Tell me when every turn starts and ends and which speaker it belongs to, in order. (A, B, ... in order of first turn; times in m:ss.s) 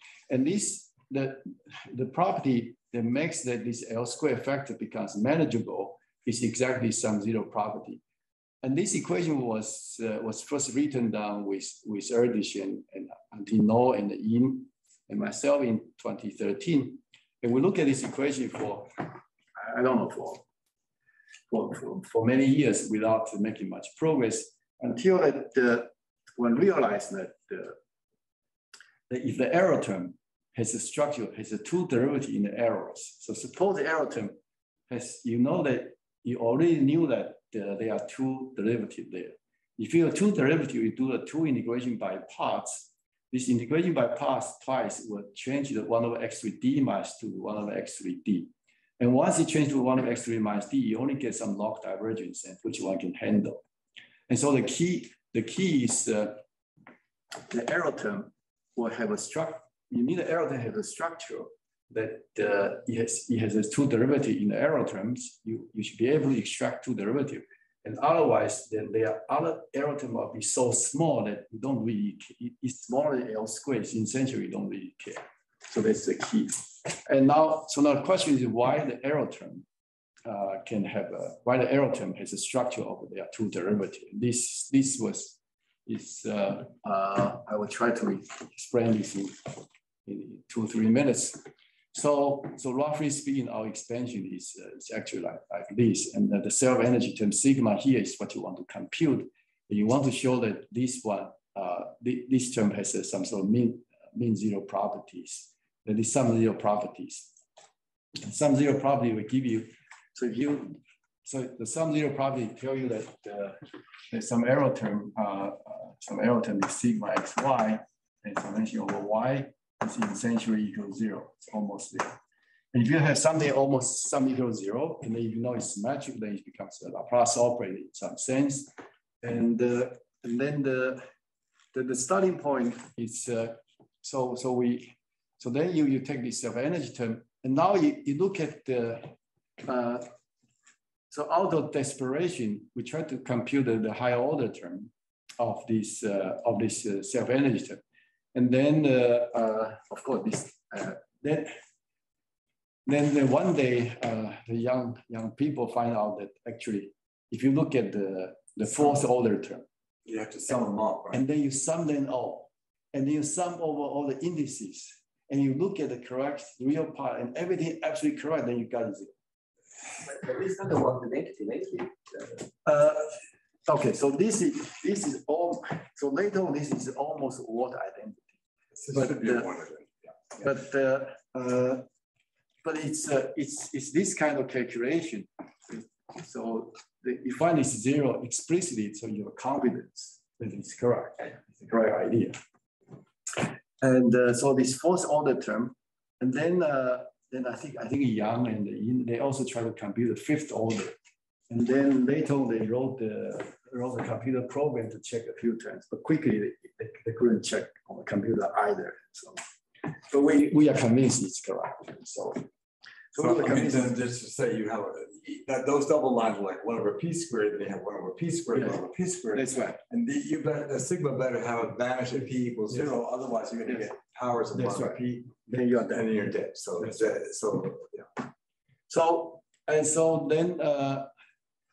0:00.3-0:08.0 A
0:08.6-0:20.4 A
0:21.5-0:27.8 A
0:29.1-0:34.4 A
0:34.9-0:53.6 A
0:54.3-0:56.4 A
0:57.5-1:19.6 A
1:20.2-1:47.3 A
1:48.2-1:53.6 A
1:54.1-2:02.1 A
2:02.7-2:11.0 A
2:11.7-2:20.1 A
2:21.1-2:27.8 A
2:28.3-2:31.6 A
2:32.8-2:39.6 A
2:40.0-2:41.2 B
2:41.1-2:49.1 A
2:50.0-2:52.3 C
2:52.6-2:58.3 A
2:58.7-2:59.9 B
2:58.9-2:59.6 A
3:00.4-3:01.8 A
3:02.6-3:12.4 A
3:13.3-3:20.9 A
3:21.5-3:32.5 A
3:33.1-3:33.9 A
3:33.1-3:45.0 B
3:38.5-3:38.8 A
3:39.3-3:39.8 A
3:43.6-3:43.9 A
3:44.5-3:46.2 A
3:45.9-3:48.1 B
3:48.9-3:51.1 A